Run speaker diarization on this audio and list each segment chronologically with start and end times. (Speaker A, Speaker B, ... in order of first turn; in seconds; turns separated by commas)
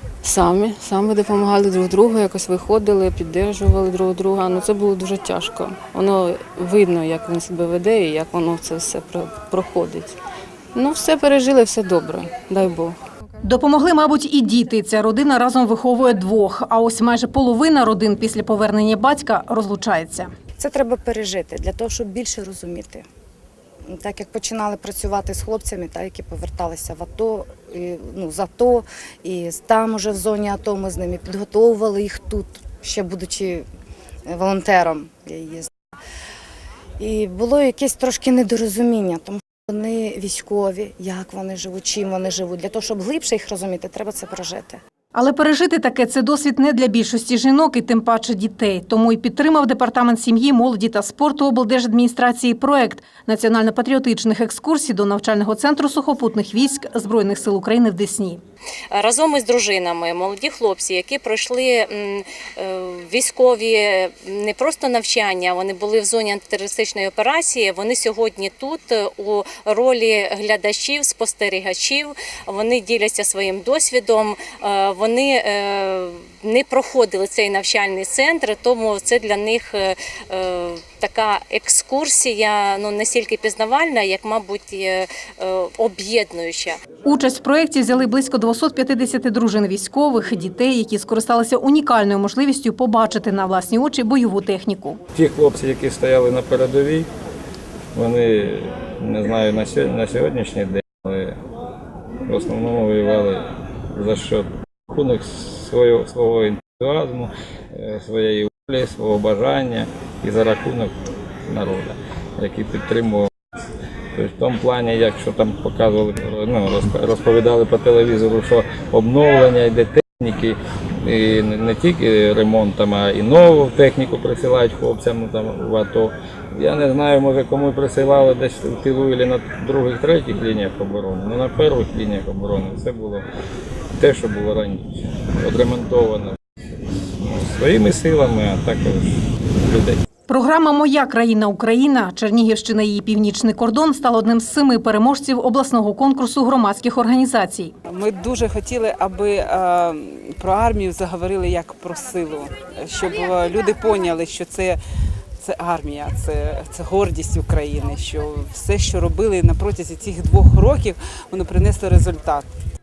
Speaker A: 0.2-10.2, Speaker A: 10.8-13.0, Speaker B: 13.4-20.3, Speaker C: 20.6-23.1, Speaker C: 23.9-33.7, Speaker C: 34.3-35.7, Speaker C: 37.0-44.8, Speaker B: 45.1-58.4, Speaker D: 58.9-86.8, Speaker B: 87.0-95.0, Speaker E: 95.1-97.1, Speaker E: 98.0-101.4, Speaker E: 102.3-110.9, Speaker E: 111.5-113.3, Speaker E: 114.2-133.2, Speaker E: 134.0-134.9, Speaker E: 135.4-136.4, Speaker E: 137.2-140.0, Speaker B: 140.3-147.7, Speaker F: 147.9-154.8, Speaker F: 155.4-162.5